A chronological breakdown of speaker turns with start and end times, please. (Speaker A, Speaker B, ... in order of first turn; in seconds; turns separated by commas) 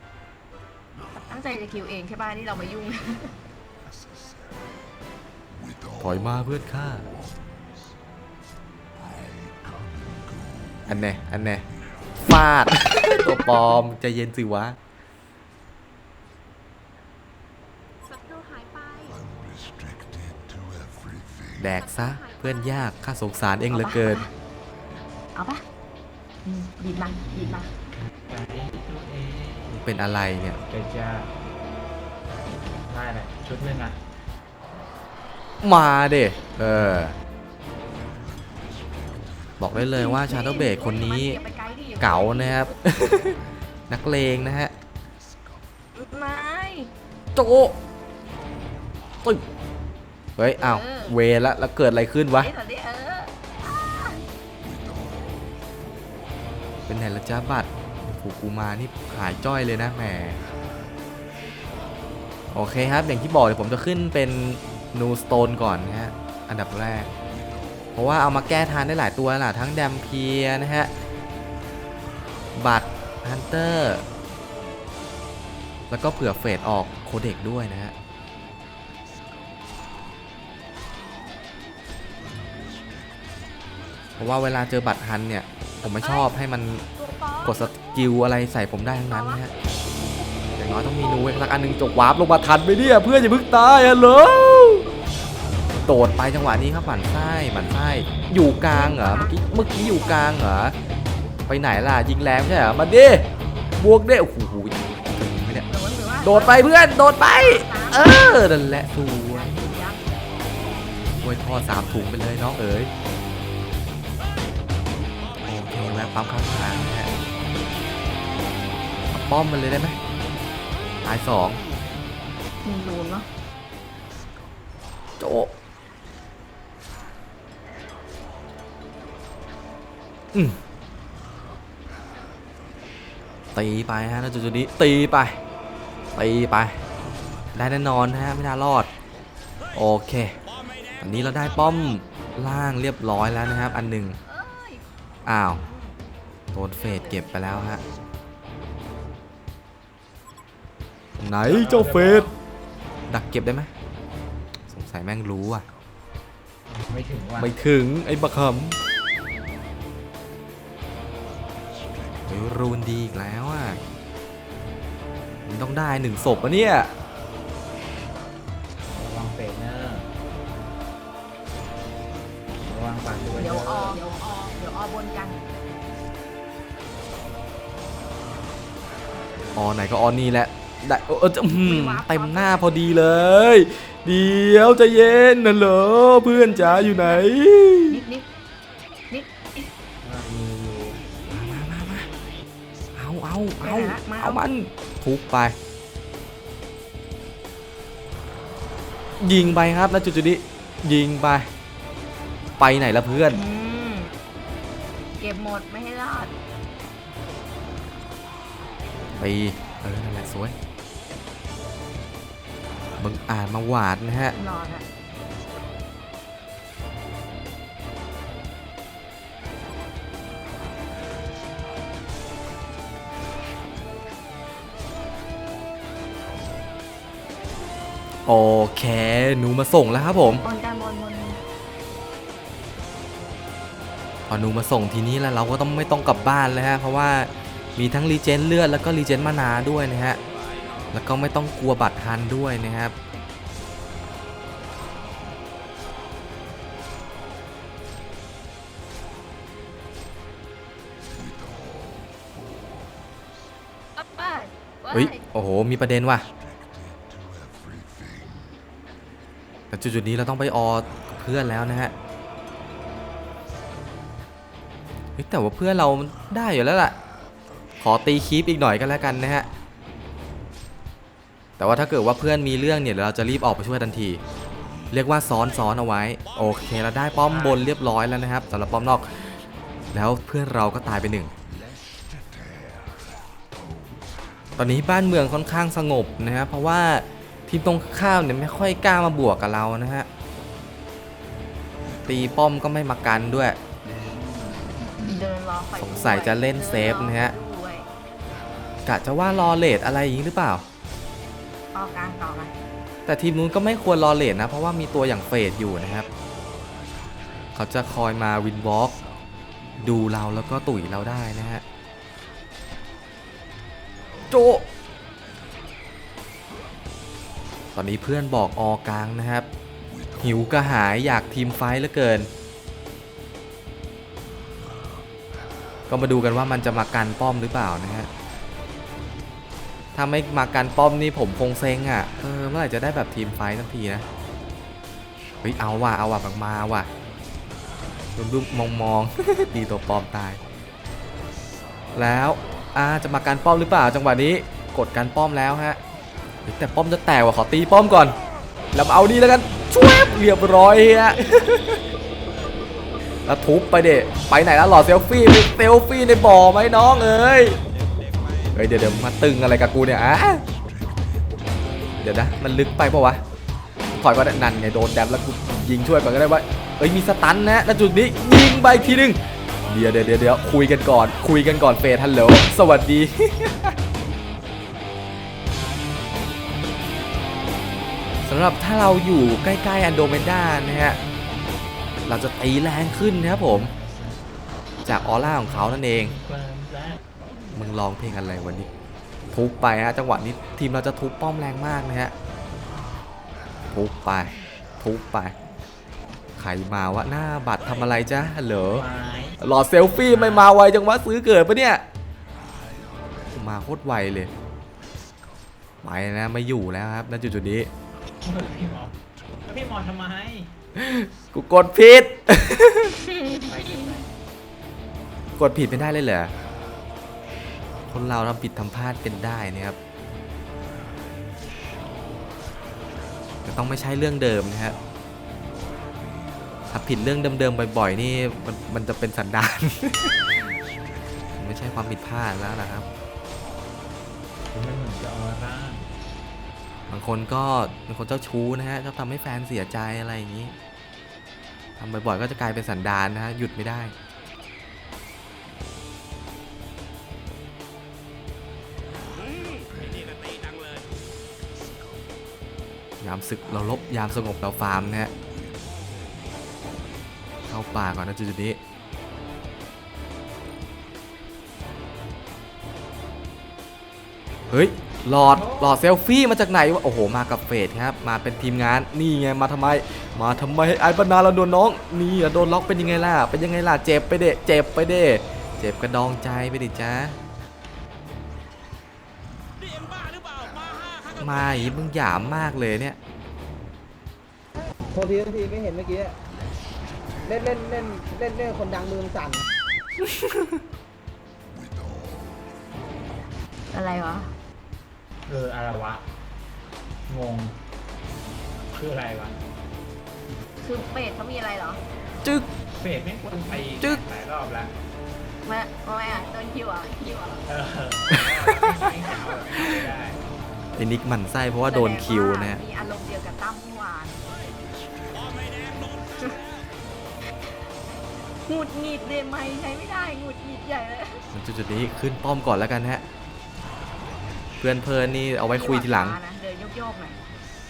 Speaker A: 1.1-3.3, Speaker B: 6.0-7.1, Speaker B: 10.8-11.7, Speaker B: 12.2-14.8, Speaker A: 13.2-13.8, Speaker C: 18.1-19.3, Speaker B: 21.6-24.2, Speaker C: 21.7-22.9, Speaker A: 23.7-24.3, Speaker A: 25.3-25.6, Speaker A: 26.4-27.7, Speaker D: 28.2-29.8, Speaker B: 29.7-30.6, Speaker D: 30.6-31.3, Speaker D: 32.9-34.0, Speaker B: 35.6-37.1, Speaker B: 39.6-41.4, Speaker A: 39.8-42.7, Speaker B: 42.0-44.7, Speaker A: 46.0-46.9, Speaker B: 47.3-47.8, Speaker B: 50.4-52.5, Speaker A: 50.5-51.2, Speaker A: 52.4-54.2, Speaker B: 56.9-60.4, Speaker B: 62.5-67.1, Speaker B: 67.9-70.9, Speaker B: 72.5-74.0, Speaker B: 75.9-77.9, Speaker B: 84.2-86.8, Speaker A: 85.9-86.3, Speaker A: 86.9-88.1, Speaker B: 87.4-89.5, Speaker A: 89.1-89.5, Speaker B: 90.6-94.9, Speaker A: 91.0-91.4, Speaker B: 95.8-100.7, Speaker A: 98.7-100.7, Speaker B: 101.5-105.7, Speaker A: 105.7-110.0, Speaker B: 106.2-109.5, Speaker B: 111.2-112.9, Speaker B: 115.4-117.1, Speaker B: 119.1-120.0, Speaker B: 121.0-121.6, Speaker A: 122.6-123.3, Speaker B: 125.2-125.5, Speaker B: 133.5-135.4, Speaker B: 136.1-136.8, Speaker B: 137.5-138.9, Speaker B: 139.7-140.4, Speaker B: 141.0-144.2, Speaker A: 144.2-146.0, Speaker B: 145.2-145.6, Speaker B: 146.5-147.8, Speaker A: 146.8-147.8, Speaker B: 151.2-152.3, Speaker D: 151.4-152.3, Speaker B: 153.1-153.7, Speaker B: 154.7-155.6, Speaker D: 156.7-157.5, Speaker B: 157.4-158.8, Speaker B: 162.3-163.8, Speaker B: 165.4-166.9, Speaker D: 168.9-170.1, Speaker D: 172.6-174.0, Speaker A: 173.4-175.4, Speaker B: 179.5-188.0, Speaker A: 181.6-183.0, Speaker A: 186.2-187.3, Speaker A: 187.9-188.3, Speaker A: 189.1-189.7, Speaker D: 190.0-191.0, Speaker B: 191.3-192.1, Speaker B: 192.9-195.6, Speaker A: 193.6-194.4, Speaker B: 199.2-201.5, Speaker B: 202.6-203.4, Speaker A: 203.3-204.1, Speaker A: 205.2-206.3, Speaker B: 209.1-210.5, Speaker B: 213.0-214.3, Speaker A: 214.3-214.8, Speaker B: 228.2-230.4, Speaker A: 230.4-231.4, Speaker B: 234.3-240.2, Speaker B: 240.9-242.9, Speaker A: 254.0-255.2, Speaker B: 254.9-256.2, Speaker B: 259.7-261.9, Speaker B: 265.2-267.0, Speaker B: 267.8-269.5, Speaker B: 271.6-274.2, Speaker B: 274.9-279.4, Speaker D: 277.3-277.6, Speaker B: 279.9-281.3, Speaker B: 284.6-290.1, Speaker B: 292.1-293.6, Speaker A: 295.0-297.9, Speaker B: 295.8-297.3, Speaker B: 298.9-300.6, Speaker A: 301.7-302.5, Speaker B: 303.1-306.1, Speaker B: 307.5-309.0, Speaker B: 309.8-311.6, Speaker B: 314.3-314.6, Speaker B: 317.7-319.5, Speaker B: 320.2-322.3, Speaker B: 325.9-328.1, Speaker B: 329.9-334.1, Speaker B: 335.4-336.9, Speaker B: 338.1-340.4, Speaker B: 341.9-345.8, Speaker B: 346.4-348.2, Speaker B: 348.7-351.8, Speaker B: 353.2-357.6, Speaker B: 358.5-360.4, Speaker B: 362.0-363.2, Speaker B: 363.9-373.7, Speaker B: 378.2-381.0, Speaker B: 382.1-383.7, Speaker B: 384.8-386.1, Speaker D: 384.9-387.0, Speaker B: 387.5-388.7, Speaker B: 389.3-392.1, Speaker B: 393.7-395.3, Speaker B: 396.4-398.9, Speaker D: 398.7-400.5, Speaker B: 399.4-401.8, Speaker B: 403.3-404.3, Speaker B: 405.8-407.7, Speaker D: 408.2-410.5, Speaker B: 410.7-412.9, Speaker A: 413.0-414.0, Speaker D: 413.4-414.1, Speaker B: 415.4-416.3, Speaker B: 417.9-419.8, Speaker B: 423.4-424.8, Speaker B: 426.7-430.6, Speaker B: 431.4-432.9, Speaker D: 434.5-435.9, Speaker B: 436.9-440.5, Speaker B: 441.8-443.9, Speaker B: 453.0-455.1, Speaker B: 457.5-458.6, Speaker B: 464.5-477.2, Speaker B: 481.2-483.0, Speaker E: 484.9-486.1, Speaker E: 487.2-489.4, Speaker B: 490.0-490.6, Speaker A: 493.7-494.3, Speaker D: 495.3-496.0, Speaker D: 497.1-497.6, Speaker D: 498.7-499.4, Speaker A: 500.6-501.8, Speaker D: 502.7-504.7, Speaker A: 503.2-503.6, Speaker A: 505.4-507.4, Speaker D: 507.5-510.2, Speaker B: 508.1-508.9, Speaker B: 509.5-509.8, Speaker B: 510.7-512.6, Speaker A: 511.6-514.2, Speaker A: 517.4-517.7, Speaker A: 518.3-521.2, Speaker B: 521.3-523.0, Speaker B: 524.6-526.2, Speaker A: 525.5-527.2